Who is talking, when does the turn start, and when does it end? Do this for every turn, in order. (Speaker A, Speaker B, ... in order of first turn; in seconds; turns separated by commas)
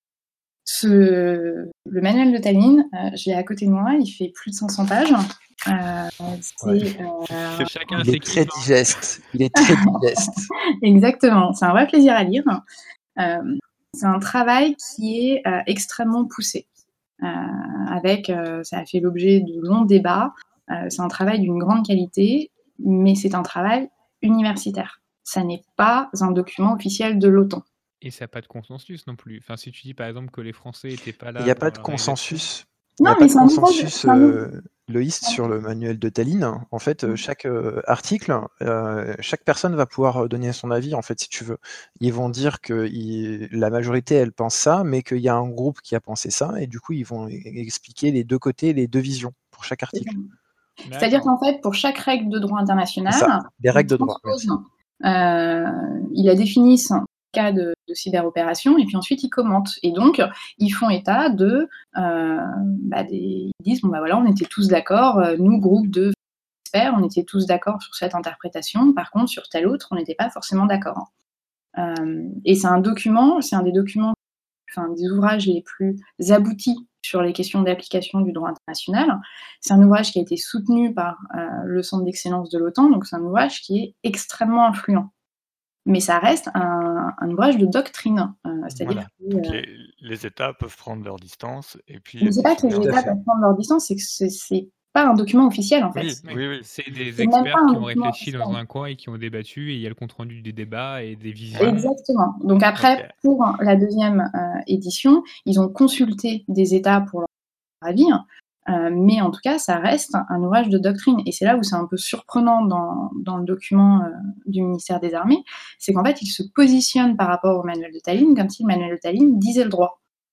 Speaker A: 0.7-7.7, Speaker B: 6.6-6.9, Speaker C: 7.6-8.7, Speaker B: 8.0-10.5, Speaker A: 10.8-12.6, Speaker A: 13.2-16.7, Speaker A: 17.2-27.6, Speaker C: 28.0-32.5, Speaker B: 31.4-50.1, Speaker A: 33.0-34.4, Speaker A: 49.9-50.2, Speaker C: 50.9-51.3, Speaker A: 51.0-71.1, Speaker B: 53.1-54.5, Speaker A: 71.8-74.2, Speaker A: 74.7-85.1, Speaker A: 85.9-89.6, Speaker C: 88.7-89.0, Speaker D: 88.8-93.1, Speaker A: 92.2-96.2, Speaker B: 92.8-93.2, Speaker D: 95.9-96.7, Speaker C: 96.2-101.9, Speaker A: 97.2-98.6, Speaker A: 101.6-107.3, Speaker D: 102.8-103.1, Speaker A: 107.8-120.0